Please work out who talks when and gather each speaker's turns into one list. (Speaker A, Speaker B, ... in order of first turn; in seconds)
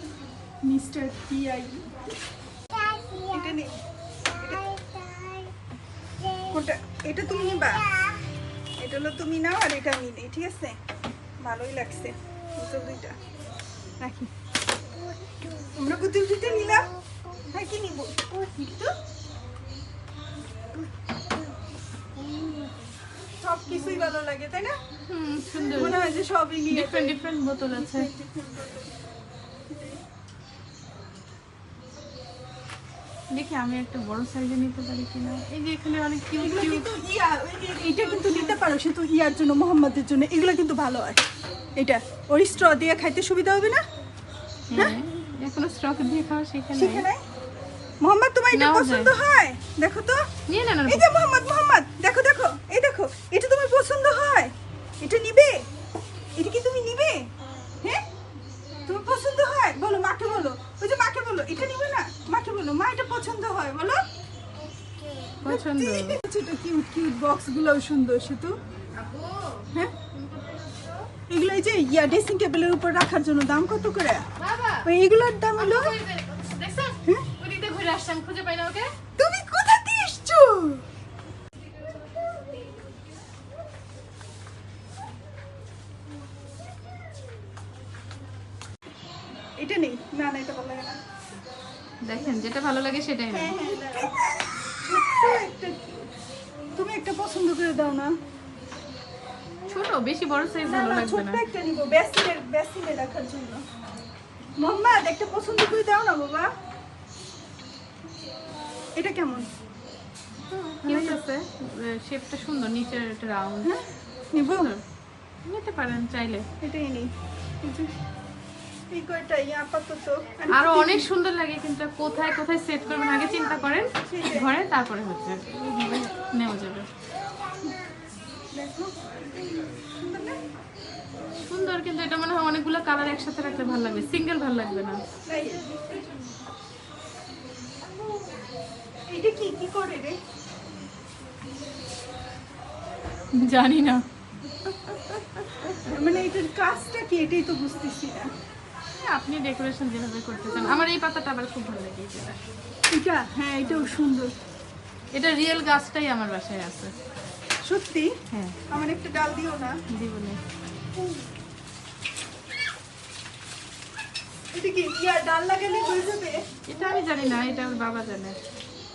Speaker A: 0.6-1.8, 3.2-3.7, 4.3-4.6, 6.5-7.8, 8.8-10.8, 11.4-13.2, 14.0-14.3, 15.7-16.9, 17.5-18.2, 23.4-24.8, 25.5-27.2, 27.7-28.9, 29.7-30.0, 36.4-41.2, 41.8-43.8, 46.7-47.2, 48.0-50.2, 50.9-55.6, 56.4-57.3, 58.9-64.0, 65.5-68.5, 71.3-74.2, 74.8-76.0, 79.2-80.8, 89.6-91.0, 93.3-94.1, 94.8-96.1, 96.8-98.1, 100.6-103.6, 104.6-106.5, 109.0-109.5, 110.9-111.2, 114.3-114.7, 116.6-117.1, 117.6-117.9, 118.9-121.1, 124.0-124.5, 128.5-130.4, 135.2-135.8, 139.1-140.2, 145.8-148.3, 152.9-154.3, 157.6-158.2, 158.7-159.8, 164.5-166.4
Speaker B: 18.5-18.9, 22.2-22.7, 25.1-26.0, 26.7-28.1, 33.3-36.9, 44.7-47.0, 48.5-49.1, 50.5-51.0, 65.4-66.2, 69.0-71.1, 74.4-74.9, 75.6-78.9, 92.0-93.5, 99.7-101.4, 110.5-113.7, 114.4-114.8, 115.5-116.5, 120.5-126.9, 131.5-135.0, 143.4-144.0, 149.0-152.4, 155.1-156.9, 159.9-160.4, 166.7-168.3